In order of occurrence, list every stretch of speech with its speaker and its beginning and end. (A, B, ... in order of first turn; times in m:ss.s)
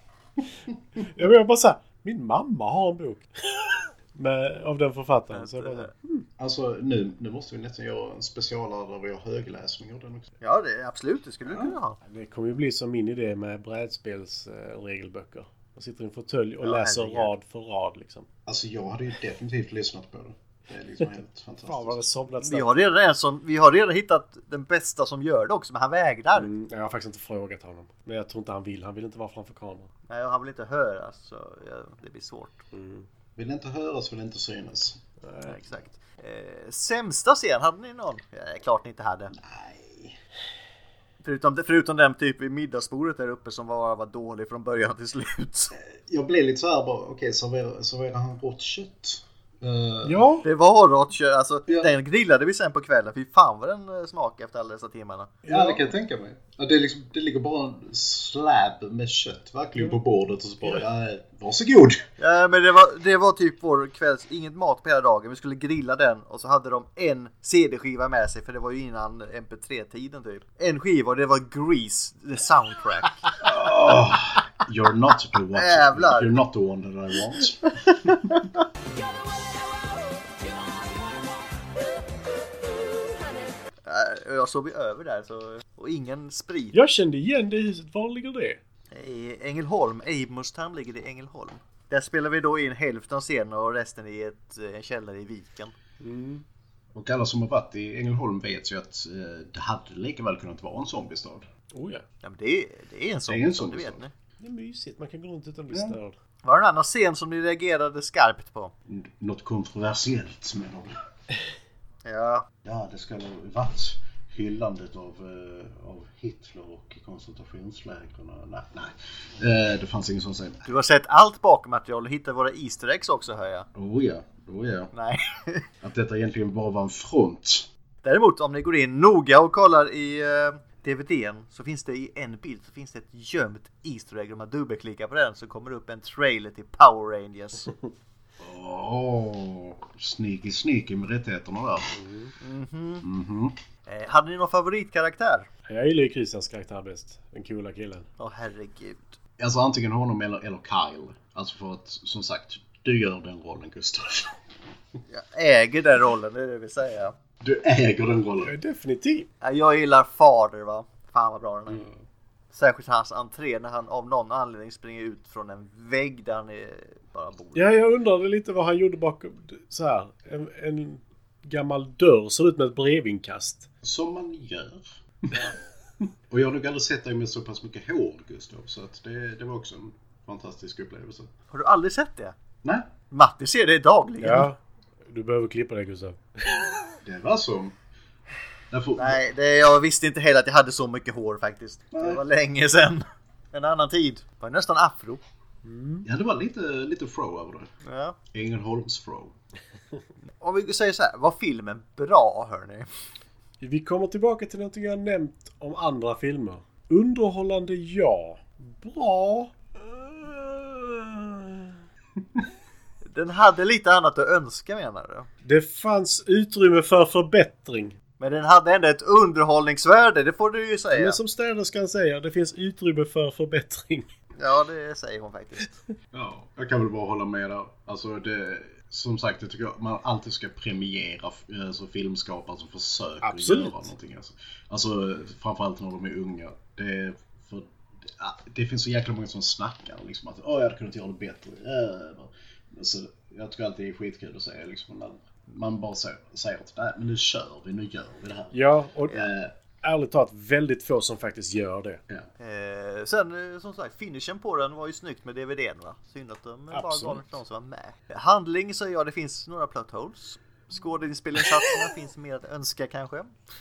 0:01.0-0:06.2 A
0:05.3-0:05.9 B
0:06.4-0:10.3 C
0:10.4-0:12.0 B
0:11.5-0:11.7 C
0:12.0-0:18.3 A
0:16.6-0:17.3 B
0:18.4-0:22.0 C
0:21.6-0:22.7 A
0:22.4-0:26.5 B
0:26.3-0:29.9 A
0:30.1-0:32.6 B
0:32.7-0:33.1 A
0:33.4-0:35.0 C
0:35.2-0:35.6 A
0:35.4-0:39.3 B
0:39.3-0:40.2 C
0:41.2-0:45.7 B
0:45.8-0:50.2 C
0:50.0-0:50.5 A
0:50.4-0:55.4 B
0:55.4-0:55.8 A
0:55.5-1:02.0 C
1:02.2-1:13.3 B
1:13.4-1:18.3 C
1:15.5-1:16.3 B
1:23.8-1:26.8 B
1:26.7-1:28.6 A
1:28.9-1:35.7 B
1:36.0-1:36.4 A
1:36.9-1:41.5 C
1:41.7-1:42.0 A
1:42.2-1:44.1 B
1:43.3-1:44.0 C
1:44.4-1:46.2 A
1:45.7-1:46.0 C
1:46.4-1:48.7 B
1:48.9-1:50.9 C
1:52.0-1:52.5 B
1:52.6-2:00.7 C
2:00.6-2:03.7 B
2:03.7-2:04.9 C
2:04.9-2:05.6 B
2:05.8-2:07.7 C
2:08.0-2:17.7 B
2:18.4-2:21.9 C
2:21.9-2:22.3 A
2:22.4-2:23.0 B
2:23.0-2:23.6 C
2:23.9-2:25.5 B
2:25.7-2:28.1 A
2:28.2-2:29.2 B
2:29.4-2:34.4 C
2:35.1-2:37.1 B
2:37.4-2:38.5 C
2:38.4-2:39.3 A
2:39.4-2:41.8 B
2:42.5-2:47.7 B
2:47.5-2:53.7 A
2:53.8-2:55.4 C
2:56.3-3:01.3 C
3:01.5-3:02.3 B
3:03.1-3:04.5 B
3:04.2-3:06.8 A
3:07.0-3:07.7 C
3:08.7-3:09.2 C
3:09.0-3:15.2 B
3:11.9-3:12.2 C
3:15.6-3:16.0 A
3:16.0-3:17.7 C
3:17.8-3:18.2 B
3:18.3-3:19.3 C
3:20.4-3:22.9 B
3:23.6-3:31.8 A
3:33.1-3:35.3 B
3:35.4-3:38.0 A
3:38.2-3:41.2 B
3:40.9-3:44.1 A
3:44.4-3:45.8 B
3:46.1-4:09.5 C
3:53.2-3:53.9 A
4:08.5-4:09.3 A
4:09.8-4:12.0 A
4:12.4-4:23.3 B
4:16.7-4:17.2 A